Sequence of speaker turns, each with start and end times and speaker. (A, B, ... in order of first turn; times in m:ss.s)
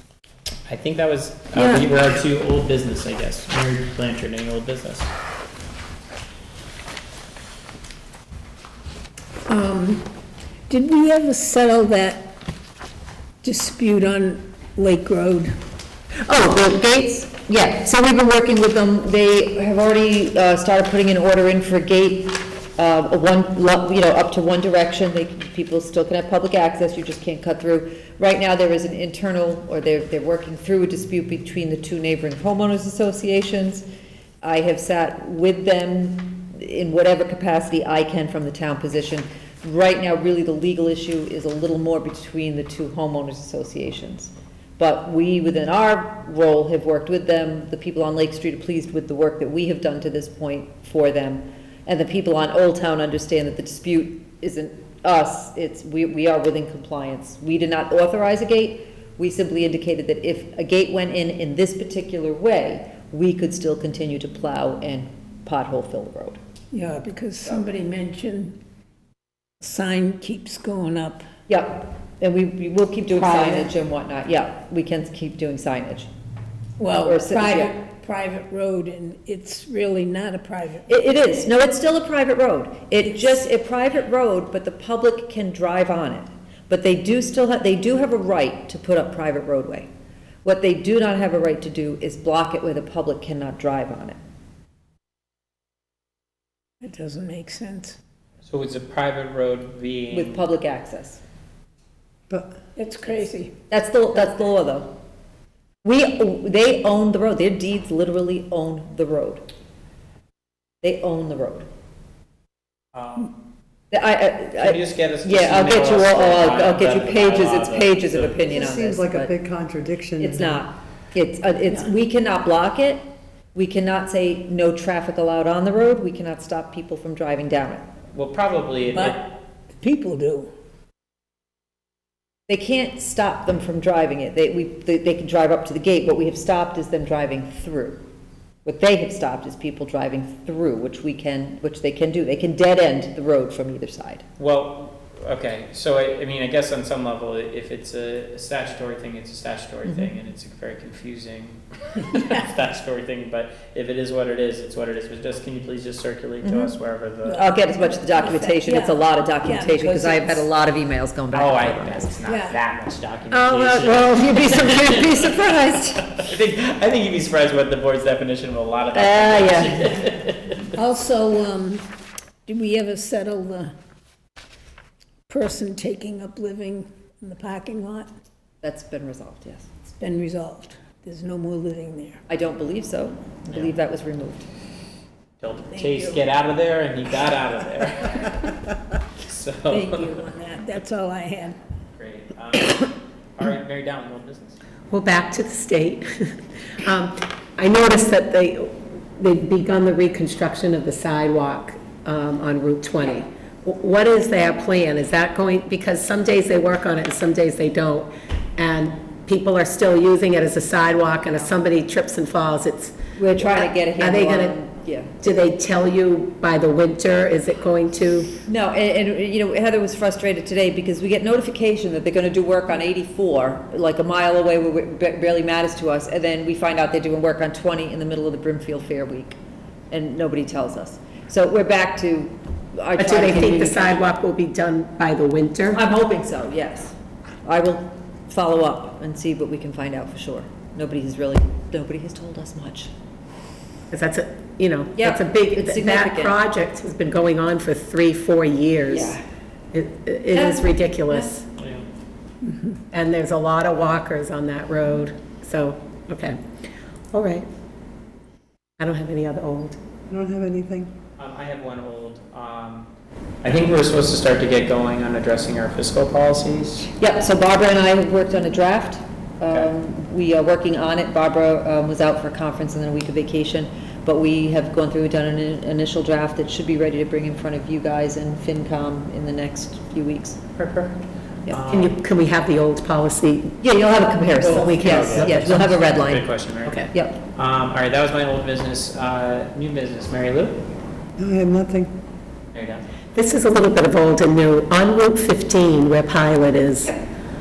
0:00.7-0:05.1 A
0:01.5-0:01.9 B
0:09.5-0:10.1 C
0:10.7-0:12.4 C
0:13.4-0:15.5 C
0:16.2-0:33.8 B
0:34.4-1:06.4 B
1:06.7-1:08.6 C
1:09.6-1:11.3 C
1:11.5-1:16.1 B
1:16.8-1:20.9 C
1:17.0-1:17.7 B
1:20.9-1:29.9 B
1:30.4-1:34.2 B
1:36.8-1:38.0 C
1:38.4-1:40.4 A
1:40.1-1:41.2 B
1:42.8-1:43.5 C
1:43.7-1:44.9 B
1:45.8-1:49.4 B
1:50.8-1:51.6 B
1:52.9-1:53.4 A
1:53.9-1:59.3 B
1:54.6-1:58.5 A
1:58.5-2:00.6 D
2:00.2-2:07.8 B
2:08.1-2:09.2 A
2:08.9-2:10.5 C
2:12.5-2:18.0 B
2:18.6-2:24.2 B
2:24.4-2:37.4 A
2:29.8-2:30.1 B
2:36.4-2:36.7 B
2:37.2-2:40.5 C
2:37.3-2:42.1 B
2:41.3-2:45.3 A
2:42.2-2:42.6 C
2:43.3-2:46.2 B
2:46.2-2:50.6 A
2:48.9-2:49.9 B
2:50.7-2:51.9 C
2:52.4-2:53.7 C
2:55.3-2:58.1 C
2:58.6-2:59.7 B
2:59.8-3:02.2 C
3:02.3-3:04.4 B
3:05.4-3:08.6 A
3:05.7-3:06.2 C
3:09.2-3:10.1 A
3:09.7-3:10.2 B
3:09.8-3:11.6 C
3:12.0-3:14.6 A
3:14.9-3:34.6 E
3:33.2-3:35.2 B
3:35.2-3:38.3 E
3:38.4-3:49.4 B
3:49.9-3:54.0 B
3:53.0-3:55.8 E
3:55.7-3:56.9 B
3:57.4-4:02.9 B
4:03.9-4:09.2 E
4:05.0-4:06.4 B
4:08.9-4:09.2 B
4:09.7-4:11.5 E
4:10.3-4:11.3 B
4:11.6-4:11.8 A
4:12.9-4:16.4 E
4:17.1-4:17.5 E
4:18.8-4:19.8 E
4:20.1-4:20.9 D
4:21.2-4:22.9 A
4:23.4-4:26.9 A
4:27.0-4:40.4 B
4:41.5-4:42.0 A
4:41.7-4:43.6 E
4:43.6-4:46.3 B
4:44.4-4:50.6 A
4:44.4-4:45.6 E
4:46.9-4:47.2 B
4:51.2-4:51.9 D
4:52.5-4:52.8 A
4:53.1-4:57.0 E